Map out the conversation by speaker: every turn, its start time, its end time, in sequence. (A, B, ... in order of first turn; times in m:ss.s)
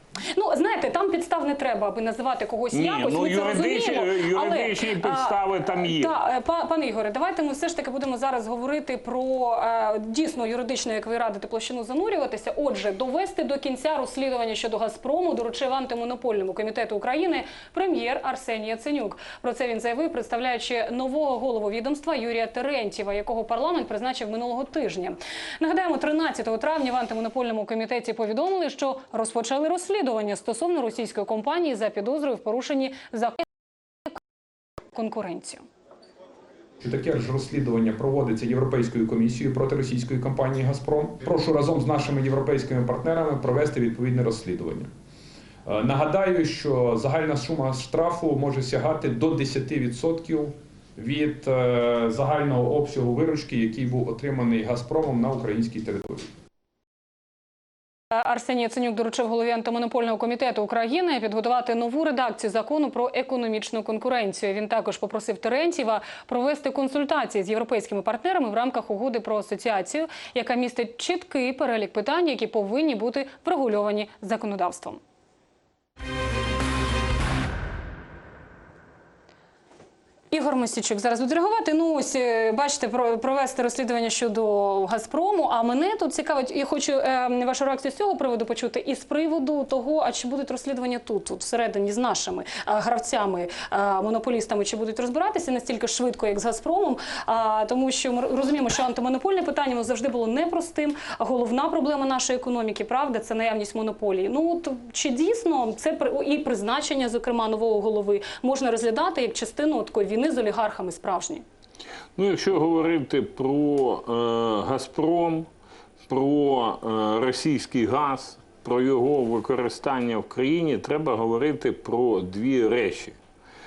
0:00.3-0:33.4 A
0:02.7-0:06.1 B
0:34.9-0:35.6 A
0:36.8-0:44.9 C
0:45.6-0:56.3 C
0:58.1-1:15.0 A
1:20.3-1:51.4 A
1:52.2-1:55.5 B
1:56.1-2:03.2 B